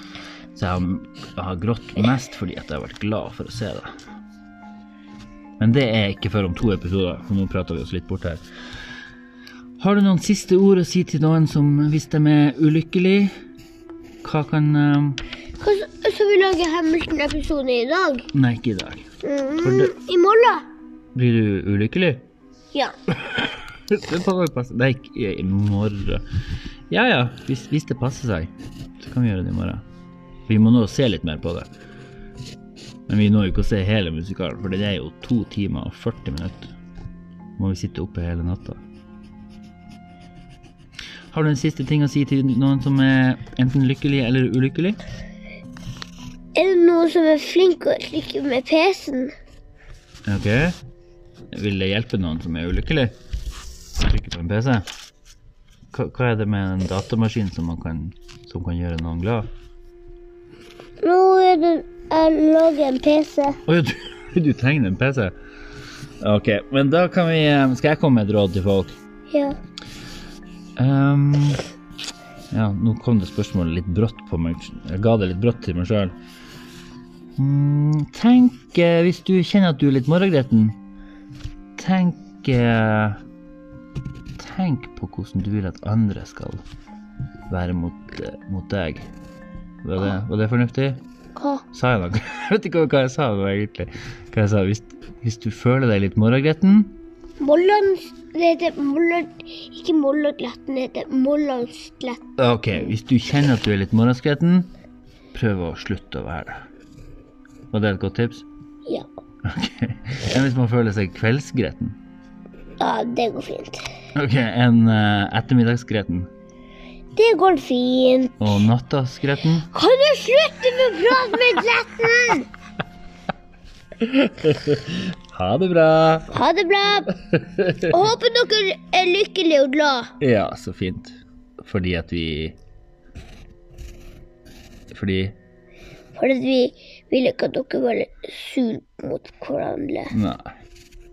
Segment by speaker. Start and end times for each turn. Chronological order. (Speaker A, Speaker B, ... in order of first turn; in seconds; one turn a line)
Speaker A: 0.5-3.9
Speaker A: 5.6-8.4
Speaker A: 9.8-13.3
Speaker A: 14.2-15.2
Speaker B: 15.6-18.3
Speaker A: 18.3-19.1
Speaker B: 19.2-20.6
Speaker A: 19.6-19.9
Speaker A: 21.1-22.2
Speaker A: 23.1-26.2
Speaker A: 26.9-29.8
Speaker A: 30.5-31.7
Speaker A: 33.1-36.7
Speaker A: 37.6-38.8
Speaker A: 41.3-45.0
Speaker B: 46.5-49.3
Speaker A: 50.3-50.8
Speaker A: 51.5-53.1
Speaker A: 54.0-54.9
Speaker A: 55.9-59.5
Speaker B: 61.0-63.6
Speaker A: 63.6-65.3
Speaker A: 66.2-69.0
Speaker B: 69.3-69.6
Speaker A: 70.8-71.6
Speaker A: 72.5-76.1
Speaker A: 77.4-80.8
Speaker A: 81.8-83.2
Speaker A: 84.3-86.6
Speaker A: 87.5-89.1
Speaker A: 89.8-91.0
Speaker B: 91.3-91.6
Speaker A: 91.7-97.0
Speaker B: 97.4-102.2
Speaker A: 102.4-104.7
Speaker A: 105.3-106.6
Speaker A: 107.7-108.5
Speaker A: 109.4-112.0
Speaker B: 112.8-113.8
Speaker A: 114.1-116.3
Speaker B: 117.1-118.6
Speaker A: 118.4-119.7
Speaker B: 119.7-122.5
Speaker A: 124.0-126.3
Speaker B: 126.3-127.1
Speaker A: 127.3-128.0
Speaker B: 127.9-130.1
Speaker A: 130.2-132.6
Speaker A: 134.9-135.4
Speaker B: 136.1-140.1
Speaker A: 140.1-140.5